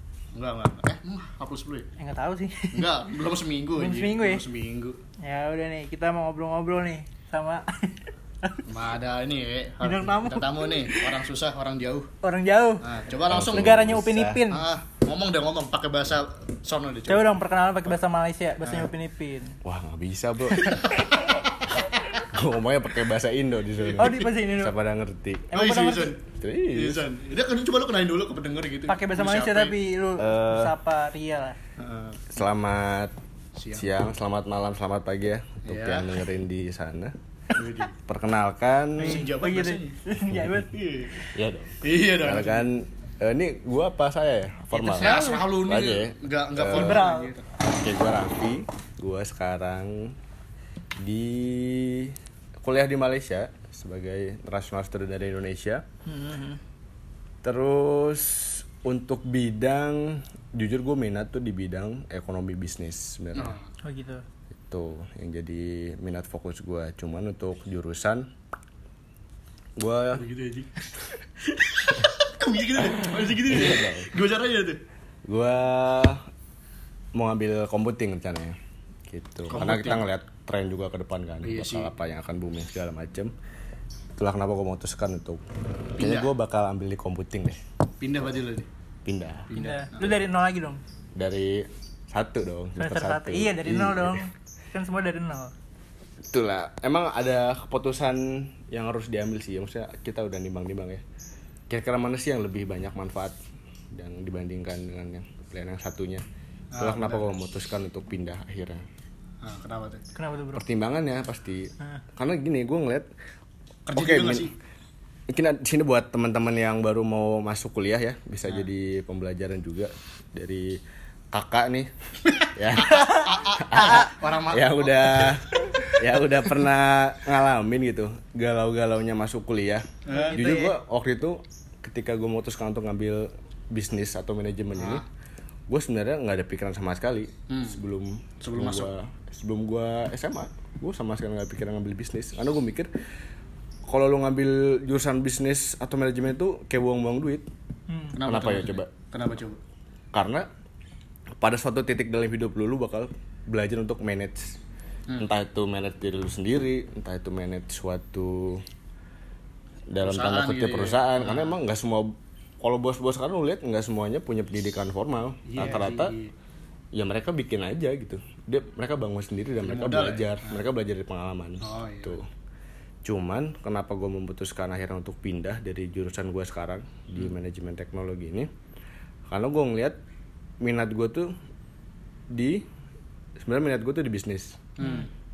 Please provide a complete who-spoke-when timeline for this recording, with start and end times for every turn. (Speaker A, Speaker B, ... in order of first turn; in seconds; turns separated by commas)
Speaker A: 0.3-1.9, Speaker B: 2.0-2.9, Speaker A: 2.7-5.0, Speaker B: 3.8-4.4, Speaker B: 5.2-8.7, Speaker A: 8.7-12.1, Speaker B: 9.8-11.1, Speaker B: 12.2-14.7, Speaker A: 12.8-17.4, Speaker C: 13.3-14.4, Speaker B: 17.1-19.6, Speaker C: 19.6-20.8, Speaker A: 20.6-22.2, Speaker C: 22.3-25.5, Speaker A: 23.8-24.3, Speaker B: 24.0-24.7, Speaker B: 25.5-26.1, Speaker A: 25.5-26.2, Speaker C: 26.3-27.0, Speaker A: 26.8-29.8, Speaker B: 28.9-31.6, Speaker C: 30.2-30.7, Speaker A: 31.8-32.2, Speaker C: 32.3-33.1, Speaker A: 33.5-33.9, Speaker C: 33.7-37.1, Speaker A: 35.7-36.1, Speaker A: 37.5-37.9, Speaker C: 38.0-39.3, Speaker A: 39.0-40.0, Speaker B: 39.0-40.7, Speaker C: 40.3-40.6, Speaker A: 40.7-41.3, Speaker C: 41.3-47.1, Speaker A: 41.8-42.7, Speaker A: 44.7-47.5, Speaker B: 45.0-45.4, Speaker B: 46.7-47.3, Speaker C: 47.6-50.1, Speaker C: 51.0-55.8, Speaker B: 56.0-56.6, Speaker C: 57.4-63.5, Speaker A: 63.3-63.6, Speaker B: 63.8-64.2, Speaker C: 64.7-68.3, Speaker C: 69.8-70.2, Speaker A: 70.1-70.9, Speaker A: 71.4-74.8, Speaker C: 73.5-74.1, Speaker C: 75.3-76.3, Speaker C: 77.1-83.3, Speaker A: 79.5-80.1, Speaker A: 81.4-81.9, Speaker C: 84.2-85.4, Speaker A: 86.0-86.3, Speaker C: 86.0-87.6, Speaker A: 88.0-88.7, Speaker C: 89.0-89.5, Speaker A: 89.5-90.1, Speaker B: 89.5-90.8, Speaker C: 91.2-94.2, Speaker B: 92.8-95.5, Speaker C: 96.3-101.0, Speaker C: 101.7-103.4, Speaker C: 103.9-106.2, Speaker A: 106.7-107.3, Speaker C: 106.8-108.8, Speaker A: 109.4-110.0, Speaker B: 110.1-110.6, Speaker C: 110.5-113.1, Speaker A: 113.8-114.5, Speaker C: 113.9-114.5, Speaker C: 115.3-120.8, Speaker C: 121.3-121.9, Speaker A: 122.3-125.8, Speaker C: 122.5-135.0, Speaker B: 122.9-123.2, Speaker A: 130.1-130.5, Speaker B: 130.1-130.7, Speaker A: 134.8-135.0, Speaker C: 135.7-142.9, Speaker A: 137.5-137.8, Speaker A: 138.4-138.9, Speaker C: 143.9-147.4, Speaker B: 147.9-148.2, Speaker A: 148.1-149.6, Speaker C: 148.2-148.9, Speaker C: 150.1-150.5, Speaker C: 151.4-154.6, Speaker C: 155.2-158.6, Speaker C: 159.9-166.1, Speaker A: 160.0-161.6, Speaker A: 165.4-166.3, Speaker C: 166.9-172.3, Speaker A: 169.6-170.6, Speaker A: 171.6-172.2, Speaker C: 173.0-178.5, Speaker C: 179.3-180.0, Speaker C: 180.6-181.3, Speaker C: 182.3-182.6, Speaker C: 183.4-184.6, Speaker A: 184.8-185.1, Speaker B: 184.8-185.1